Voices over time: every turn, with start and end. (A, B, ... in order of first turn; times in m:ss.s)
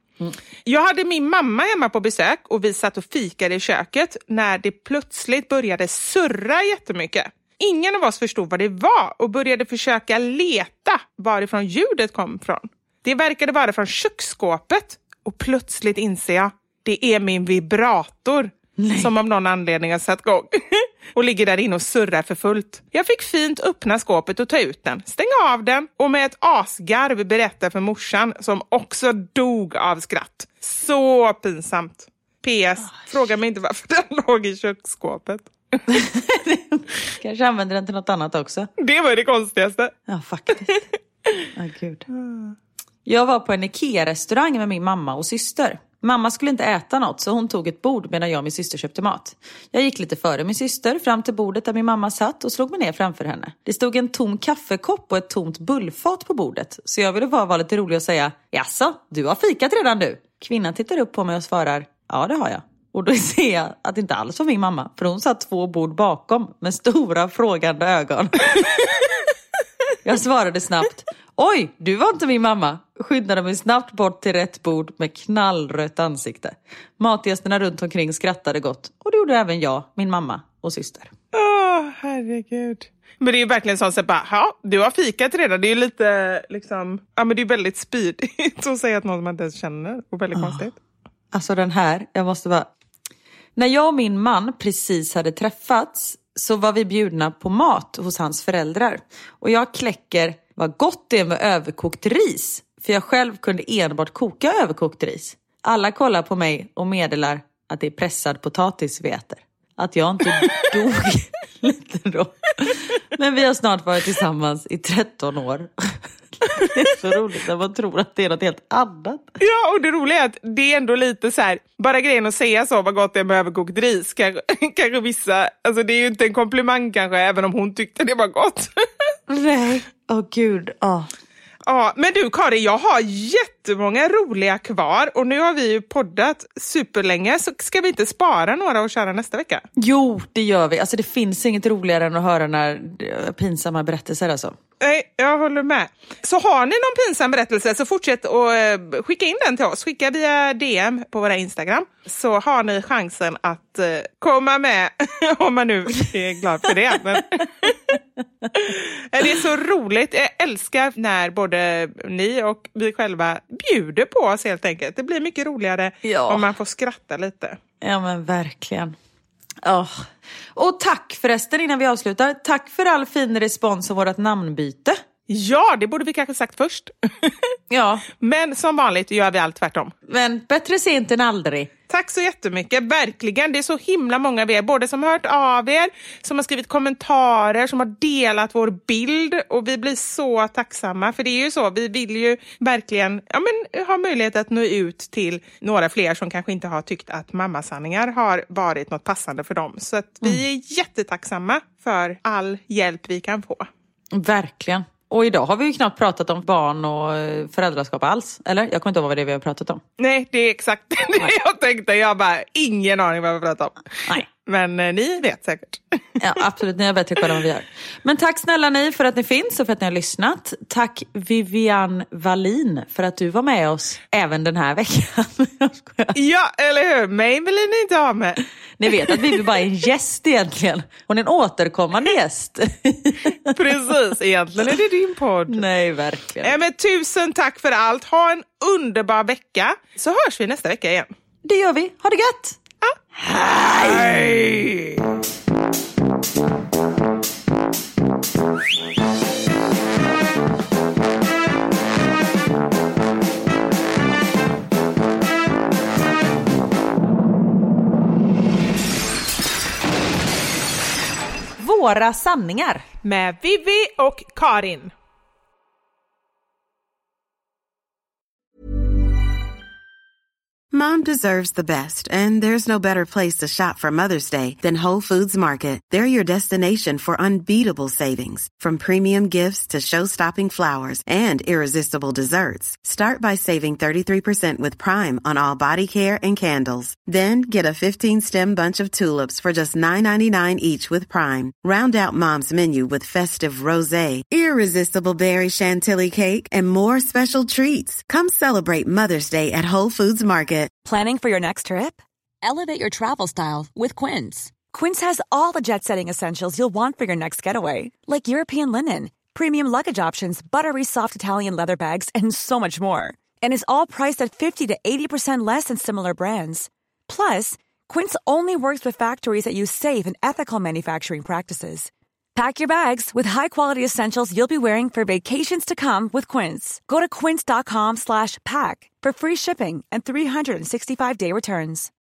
0:00.6-0:35.5 A
0:18.8-0:19.1 B
0:35.9-0:38.7 B
0:38.8-0:39.9 A
0:40.1-0:40.8 B
0:41.5-0:42.0 B
0:42.1-0:42.6 A
0:43.0-1:08.9 B
1:10.0-1:21.1 B
1:21.3-1:30.8 A
1:30.3-1:30.6 B
1:31.3-1:32.7 B
1:33.6-1:59.3 B
1:59.4-2:09.1 A
2:09.3-2:11.1 B
2:11.7-2:19.6 A
2:19.8-2:24.5 B
2:24.8-2:38.0 A
2:38.5-2:47.6 A
2:46.0-2:46.5 B
2:47.8-2:48.9 B
2:49.6-2:55.0 B
2:55.3-2:57.5 A
2:57.7-2:58.0 B
2:58.2-2:59.9 A
3:00.1-3:01.7 B
3:01.9-3:23.7 A
3:24.1-3:29.8 B
3:30.0-3:36.0 A
3:36.2-3:46.2 B
3:46.2-3:48.4 A
3:48.8-3:53.5 B
3:53.5-3:55.6 A
3:55.5-3:56.5 B
3:56.4-4:01.1 A
4:01.4-4:02.6 B
4:03.2-4:04.3 B
4:03.7-4:04.9 A
4:21.6-4:22.8 B
4:23.0-4:24.9 A
4:30.7-5:00.7 C
5:00.8-5:31.9 D